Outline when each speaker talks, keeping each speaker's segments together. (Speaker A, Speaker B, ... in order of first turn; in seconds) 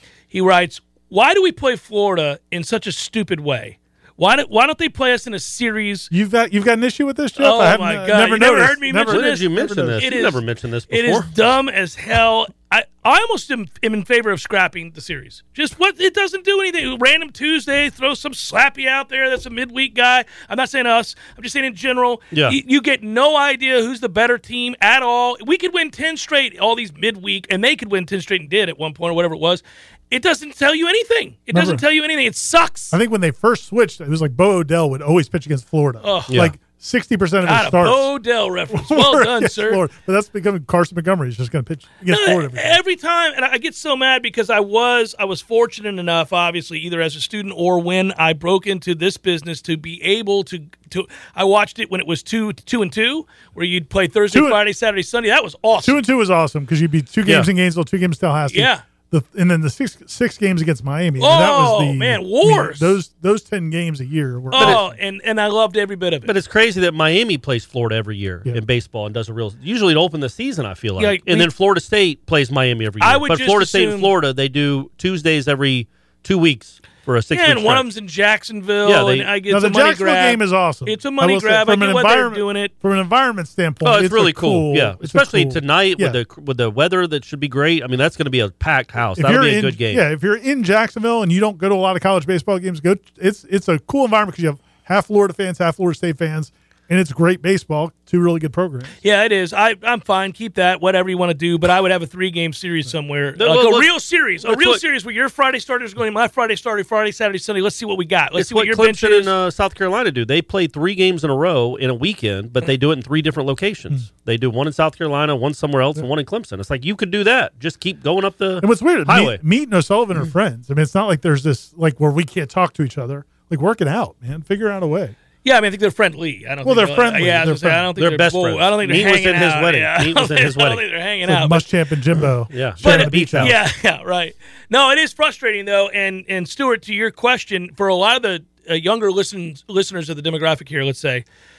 Speaker A: 0.3-6.1, 7.4-33.0, 36.0-36.4, 37.4-39.8, 42.1-56.0, 58.5-58.8, 61.2-63.0, 64.5-66.3, 71.0-71.5, 73.0-74.1, 77.3-82.7, 99.0-109.3, 125.4-131.7, 132.8-141.2
Speaker B: 6.1-10.0, 31.5-31.8, 32.9-38.1, 38.7-42.8, 54.3-54.6, 55.8-64.9, 79.5-86.2, 89.2-99.0, 118.6-125.1, 126.6-127.9, 131.2-133.6
Speaker C: 9.1-11.3, 22.3-22.6, 64.5-64.8, 66.2-77.9, 78.8-79.3, 83.8-90.0, 103.4-104.8, 108.4-119.4, 128.0-130.8, 132.5-133.6